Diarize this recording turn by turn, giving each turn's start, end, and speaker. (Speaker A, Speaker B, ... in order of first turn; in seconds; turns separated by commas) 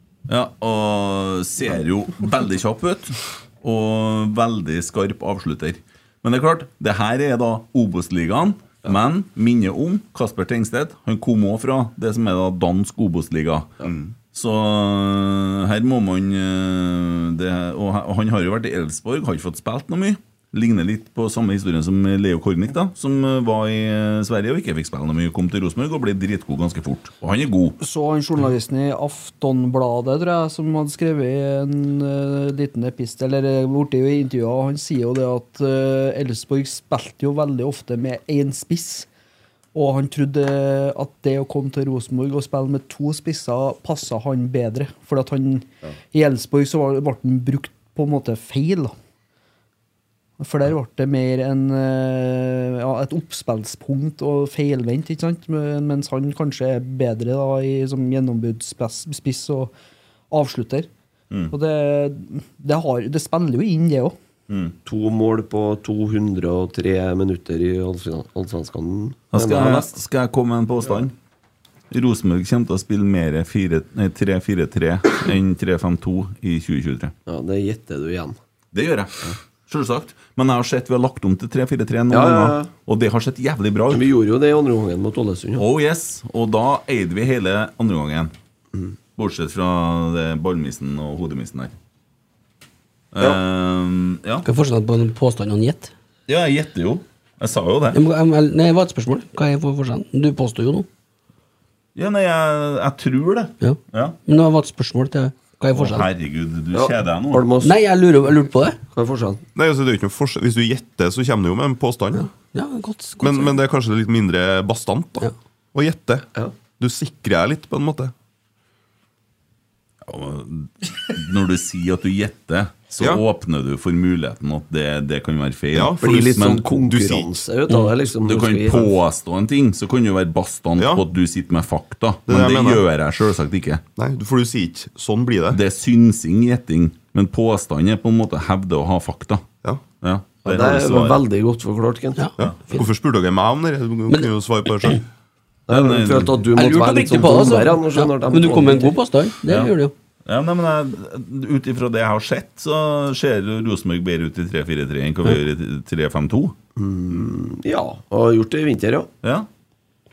Speaker A: 0.3-27.8, Speaker B: 27.8-39.1, Speaker B: 39.7-48.9, Speaker B: 50.4-59.7, Speaker B: 60.3-60.9, Speaker B: 61.5-64.1, Speaker A: 64.5-64.8, Speaker C: 64.8-69.9, Speaker A: 69.3-71.1, Speaker A: 71.9-77.1, Speaker C: 77.3-78.4, Speaker A: 78.7-84.1, Speaker C: 82.1-82.7, Speaker C: 83.9-85.7, Speaker A: 85.6-88.3, Speaker A: 89.2-91.7, Speaker A: 93.1-94.5, Speaker D: 94.4-95.9, Speaker A: 96.3-98.0, Speaker D: 97.9-100.9, Speaker A: 102.0-104.2, Speaker D: 103.6-106.1, Speaker A: 105.7-107.5, Speaker C: 106.7-107.8, Speaker D: 107.6-108.8, Speaker C: 108.9-109.4, Speaker E: 109.5-112.3, Speaker D: 112.2-113.5, Speaker E: 113.2-116.2, Speaker E: 116.8-118.1, Speaker A: 120.0-126.6, Speaker E: 125.7-127.4, Speaker C: 126.0-128.9, Speaker A: 128.2-133.8, Speaker E: 132.3-132.8, Speaker E: 133.9-135.6, Speaker A: 135.5-139.4, Speaker A: 140.0-141.2, Speaker C: 140.4-142.2, Speaker D: 142.2-142.8, Speaker E: 142.4-145.0, Speaker C: 145.7-148.9, Speaker A: 145.7-146.4, Speaker D: 146.5-149.9, Speaker A: 149.5-149.7, Speaker A: 150.2-156.5, Speaker C: 156.8-159.1, Speaker A: 159.2-159.5